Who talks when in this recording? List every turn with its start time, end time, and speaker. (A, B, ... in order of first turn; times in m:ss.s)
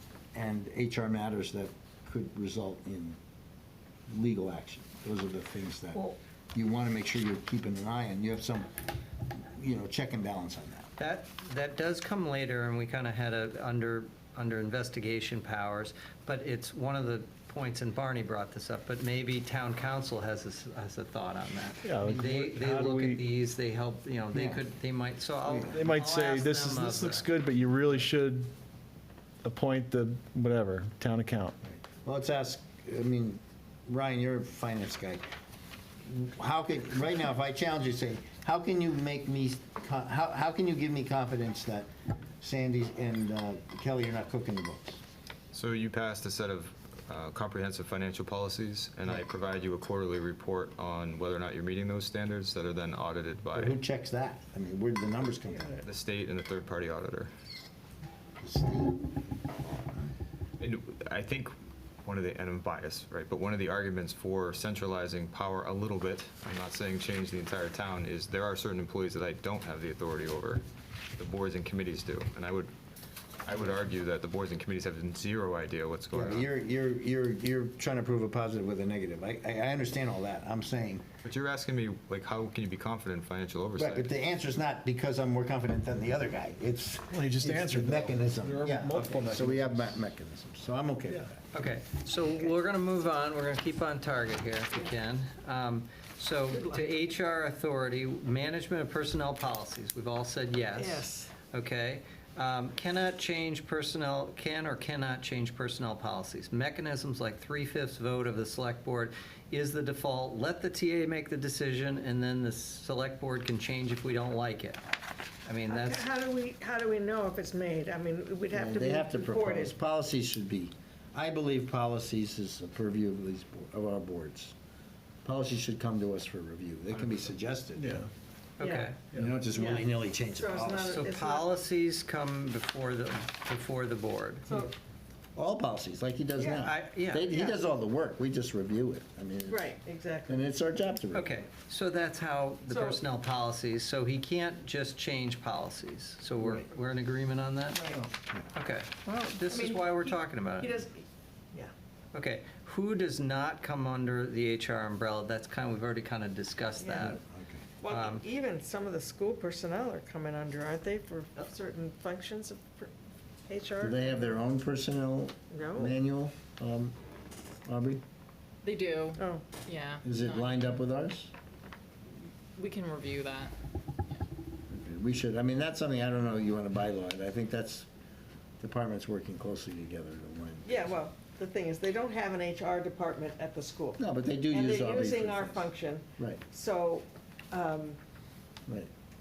0:00.3-0:03.2 A
0:04.1-0:08.7 A
0:09.6-0:10.9 A
0:11.0-0:27.3 B
0:21.8-0:23.3 C
0:24.3-0:24.6 A
0:25.4-0:25.8 A
0:25.7-0:28.5 C
0:29.4-0:31.6 C
0:32.0-0:35.2 A
0:36.0-0:41.9 A
0:42.4-0:45.0 A
0:45.5-0:53.8 D
0:53.6-0:55.8 A
0:55.8-0:57.3 D
0:58.4-0:59.0 A
1:00.6-1:01.5 D
1:02.0-1:10.6 D
1:11.2-1:12.7 D
1:13.4-1:16.5 D
1:16.1-1:21.0 A
1:21.2-1:24.1 D
1:23.8-1:31.4 A
1:27.1-1:29.9 C
1:31.5-1:54.8 B
1:36.5-1:36.8 E
1:40.7-1:41.3 E
1:55.5-1:56.1 B
1:55.7-1:59.7 E
1:58.5-2:04.6 A
2:05.2-2:08.0 A
2:07.8-2:08.1 C
2:08.6-2:09.0 B
2:08.6-2:09.0 E
2:09.1-2:11.1 A
2:09.5-2:11.5 E
2:10.9-2:14.5 B
2:15.4-2:19.8 A
2:16.4-2:16.6 E
2:16.6-2:17.4 B
2:19.5-2:20.4 E
2:20.3-2:21.3 A
2:21.1-2:27.8 B
2:22.7-2:23.0 E
2:27.7-2:28.0 E
2:28.0-2:28.5 A
2:28.5-2:30.7 B
2:29.5-2:31.7 E
2:32.1-2:37.2 B
2:36.8-2:37.2 E
2:37.0-2:37.6 A
2:37.8-2:42.9 E
2:37.9-2:38.2 B
2:43.5-2:44.3 E
2:43.8-2:47.0 A
2:45.5-2:46.0 E
2:47.6-2:48.0 A
2:48.6-2:50.6 F
2:49.2-2:49.4 E
2:50.0-2:51.3 A
2:52.6-2:53.5 F
2:54.7-2:57.9 A
2:58.6-3:01.0 A
3:00.6-3:08.0 E
3:04.0-3:06.4 A